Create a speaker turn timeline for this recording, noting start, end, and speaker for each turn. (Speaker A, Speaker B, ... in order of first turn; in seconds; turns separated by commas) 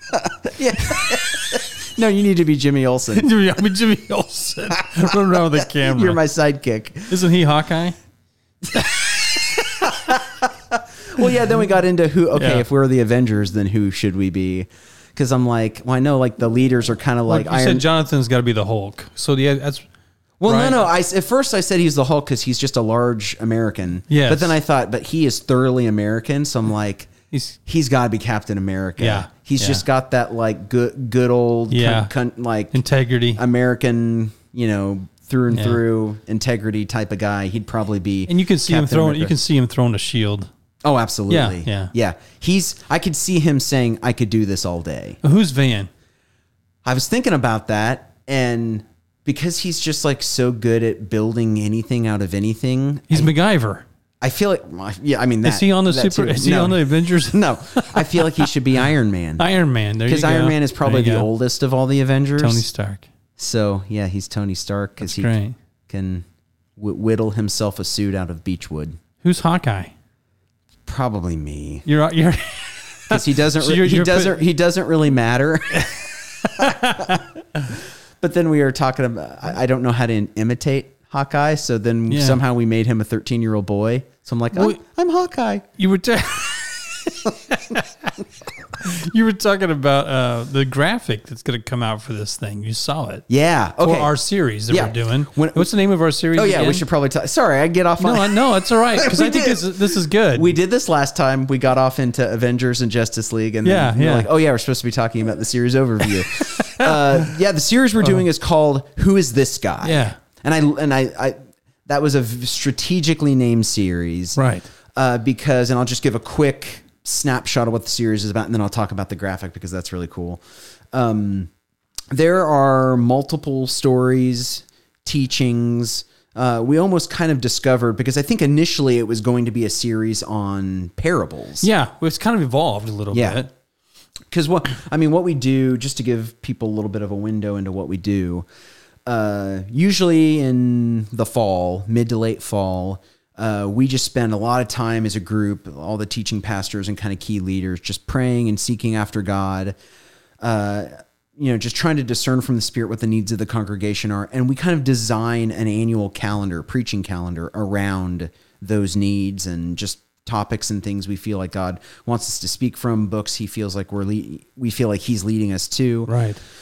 Speaker A: 0.1-3.3, Speaker B: 3.1-6.2, Speaker A: 5.1-7.2, Speaker B: 7.1-8.0, Speaker A: 9.8-17.9, Speaker B: 12.3-12.7, Speaker B: 17.3-19.9, Speaker A: 20.4-27.1, Speaker B: 20.4-20.8, Speaker B: 24.1-24.6, Speaker B: 27.3-27.6, Speaker A: 27.7-32.8, Speaker B: 29.0-29.8, Speaker B: 31.7-32.1, Speaker B: 32.7-33.4, Speaker A: 33.4-39.4, Speaker B: 35.5-35.8, Speaker B: 38.3-40.5, Speaker A: 40.8-45.2, Speaker B: 41.3-41.9, Speaker B: 45.2-45.9, Speaker A: 46.8-53.3, Speaker B: 53.1-53.8, Speaker A: 54.2-59.5, Speaker B: 55.4-58.5, Speaker B: 59.4-61.3, Speaker A: 60.0-62.7, Speaker B: 62.4-63.1, Speaker A: 63.4-65.3, Speaker B: 65.0-65.5, Speaker A: 65.9-66.2, Speaker A: 66.8-69.0, Speaker B: 69.2-69.9, Speaker A: 70.9-71.9, Speaker B: 71.8-74.5, Speaker A: 73.1-75.9, Speaker B: 75.8-77.2, Speaker A: 76.7-77.2, Speaker A: 78.2-85.7, Speaker B: 82.1-82.4, Speaker B: 84.5-84.8, Speaker B: 85.8-93.2, Speaker A: 93.3-94.1, Speaker B: 93.8-96.9, Speaker A: 94.7-95.7, Speaker A: 96.3-111.4, Speaker B: 98.0-100.6, Speaker B: 103.6-104.3, Speaker B: 106.1-107.3, Speaker B: 109.8-110.2, Speaker A: 111.9-114.4, Speaker B: 114.4-114.7, Speaker A: 115.0-121.5, Speaker A: 122.1-131.7, Speaker B: 131.6-133.5, Speaker A: 133.1-133.4, Speaker A: 134.3-138.4, Speaker A: 139.1-149.7, Speaker A: 150.4-166.1, Speaker B: 166.1-166.4